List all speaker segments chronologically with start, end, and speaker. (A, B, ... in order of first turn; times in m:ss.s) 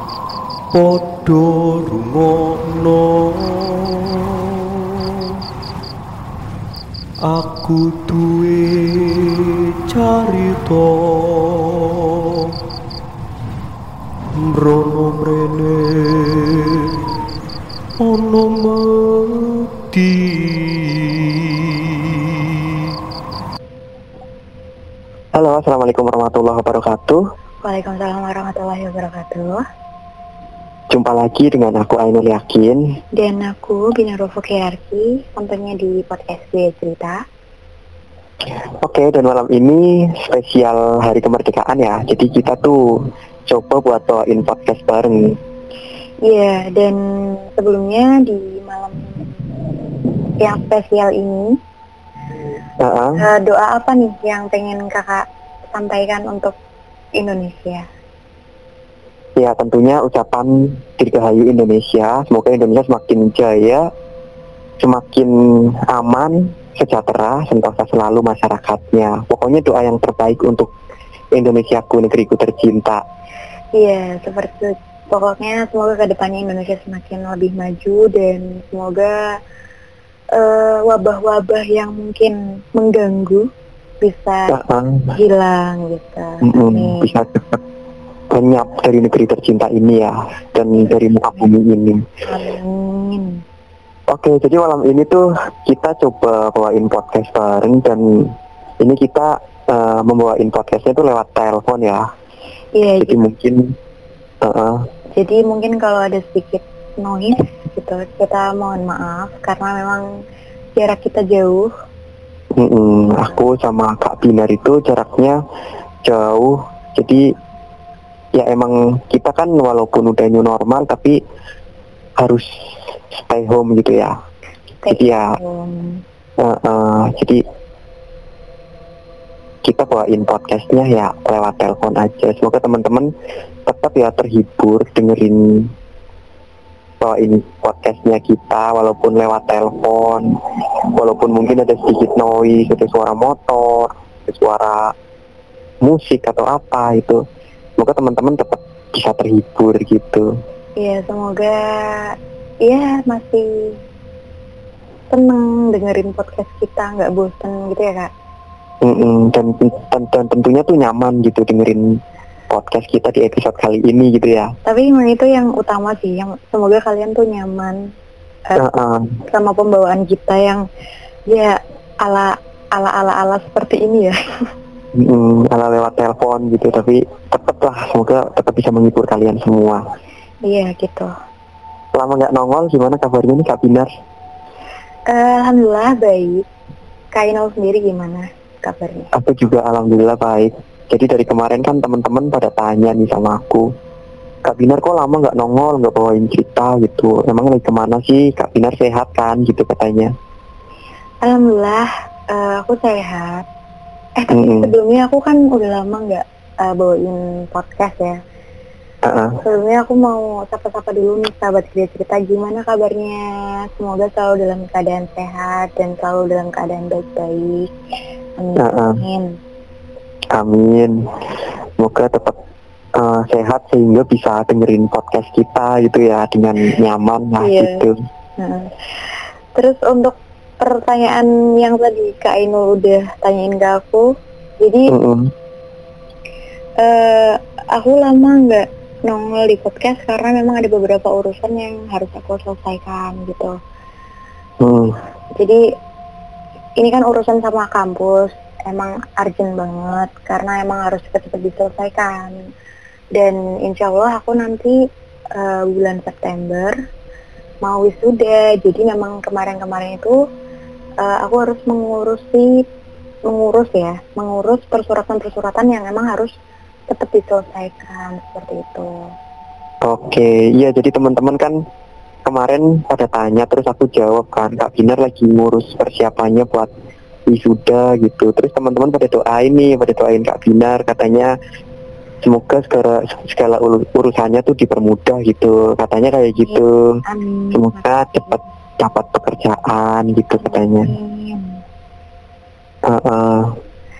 0:00.7-0:04.9 A
0:07.2-0:12.6 A
0:14.3-0:16.9 A
0:18.0-0:22.6 A
0:25.3-0:27.2 B
0:27.6-0:29.6 C
0:30.9-0:32.8 B
0:33.2-0:37.2 C
0:38.8-0:42.8 B
0:43.5-0:45.4 B
0:46.3-0:49.4 C
0:50.4-0:51.6 C
0:52.8-0:53.2 B
0:53.2-0:56.6 C
0:57.2-0:57.9 C
0:59.4-1:03.8 B
1:04.8-1:10.7 B
1:11.4-1:13.0 B
1:13.8-1:19.2 C
1:20.3-1:23.5 C
1:24.0-1:24.6 C
1:24.5-1:25.1 B
1:25.2-1:27.1 C
1:26.4-1:27.6 B
1:28.3-1:32.0 B
1:32.3-1:33.4 C
1:34.1-1:42.1 B
1:42.8-1:43.2 C
1:43.0-1:43.8 B
1:44.4-1:44.8 B
1:45.2-1:50.1 C
1:50.8-1:51.7 C
1:52.6-1:55.4 B
1:56.0-1:57.2 B
1:58.3-2:01.2 B
2:02.2-2:04.1 B
2:04.8-2:06.0 C
2:04.9-2:05.4 B
2:06.4-2:07.4 B
2:09.6-2:13.1 B
2:13.7-2:15.7 B
2:17.0-2:20.4 B
2:20.9-2:24.9 B
2:25.8-2:27.2 B
2:27.8-2:30.3 B
2:30.8-2:33.8 C
2:35.1-2:38.1 C
2:38.8-2:42.0 B
2:42.5-2:44.5 B
2:44.6-2:47.9 C
2:48.6-2:49.2 B
2:49.3-2:50.6 C
2:51.3-2:54.2 C
2:55.0-2:59.8 B
3:00.5-3:01.1 C
3:01.9-3:03.9 B
3:05.1-3:06.4 C
3:07.1-3:09.1 C
3:09.1-3:13.7 B
3:14.4-3:20.1 B
3:21.2-3:23.5 C
3:24.2-3:28.2 C
3:24.3-3:24.7 B
3:29.0-3:29.4 B
3:29.4-3:37.7 C
3:38.4-3:39.4 C
3:38.6-3:39.0 B
3:40.3-3:41.1 B
3:41.8-3:42.4 B
3:43.0-3:48.0 B
3:47.4-3:47.9 C
3:48.4-3:48.7 C
3:49.6-3:54.1 C
3:54.6-3:55.0 C
3:54.9-3:55.3 B
3:56.8-4:03.6 C
4:04.6-4:05.0 B
4:05.4-4:05.6 C
4:06.8-4:12.4 C
4:13.2-4:14.8 C
4:15.4-4:16.8 C
4:17.6-4:20.2 C
4:21.0-4:22.7 C
4:23.3-4:26.3 C
4:26.9-4:29.1 C
4:29.8-4:31.6 B
4:32.2-4:36.7 B
4:37.3-4:41.4 B
4:42.2-4:47.0 B
4:46.5-4:48.4 C
4:47.5-4:50.9 B
4:50.4-4:51.6 C
4:52.9-4:53.6 B